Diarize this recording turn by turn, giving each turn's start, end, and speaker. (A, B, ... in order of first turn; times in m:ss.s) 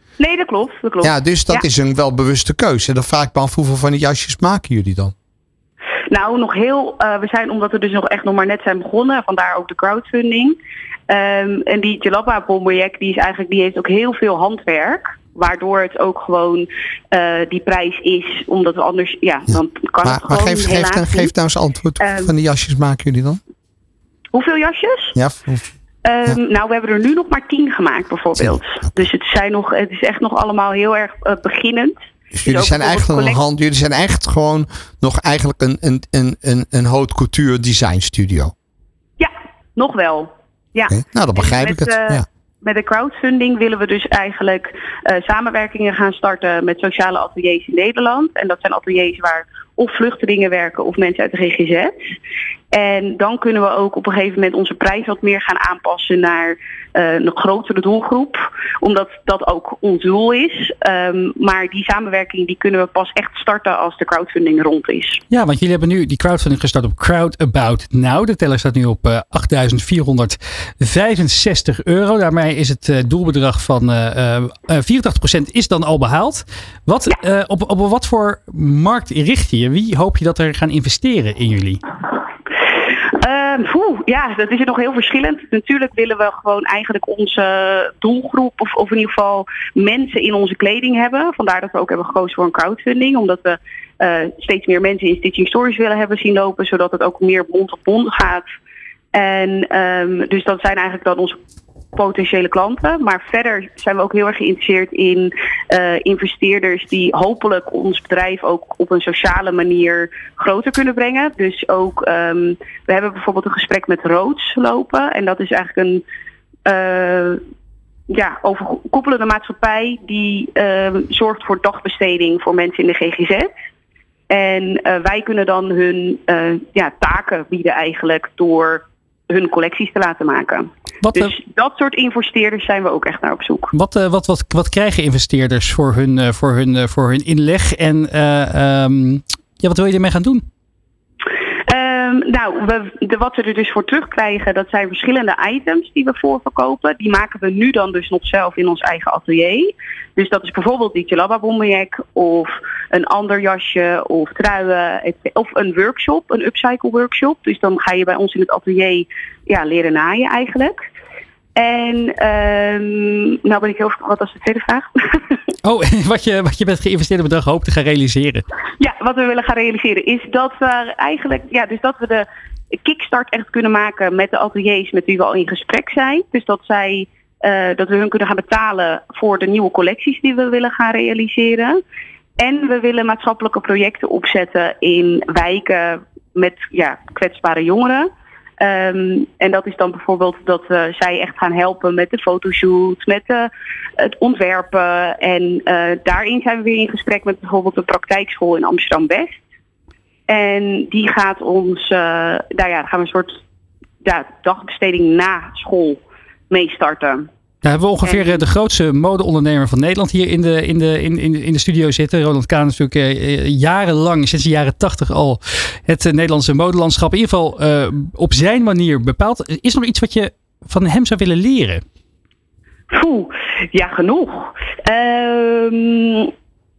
0:00.2-0:01.6 A
0:01.0-0:05.1 B
0:06.1-0:10.6 A
0:11.1-0:21.3 A
0:19.5-0:23.4 B
0:22.0-0:22.3 A
0:24.3-0:25.1 A
0:25.1-0:25.6 B
0:26.0-0:33.4 A
0:28.4-0:28.9 B
0:32.3-0:38.5 B
0:39.2-0:52.0 A
0:40.9-0:42.2 B
0:52.7-1:05.2 A
1:05.3-1:21.8 C
1:23.2-1:38.4 A
1:39.1-1:41.4 A
1:42.0-1:56.0 A
1:56.6-1:57.4 A
1:58.1-2:03.5 A
2:04.3-2:13.7 A
2:11.0-2:11.3 C
2:13.7-2:20.4 C
2:21.7-2:40.8 A
2:41.6-2:45.3 A
2:45.6-2:48.4 C
2:48.8-2:52.2 A
2:52.8-3:01.8 A
3:02.4-3:08.1 A
3:08.6-3:19.4 A
3:20.3-3:23.4 A
3:24.0-3:27.3 A
3:27.6-3:41.8 C
3:28.0-3:28.4 A
3:42.9-3:46.3 A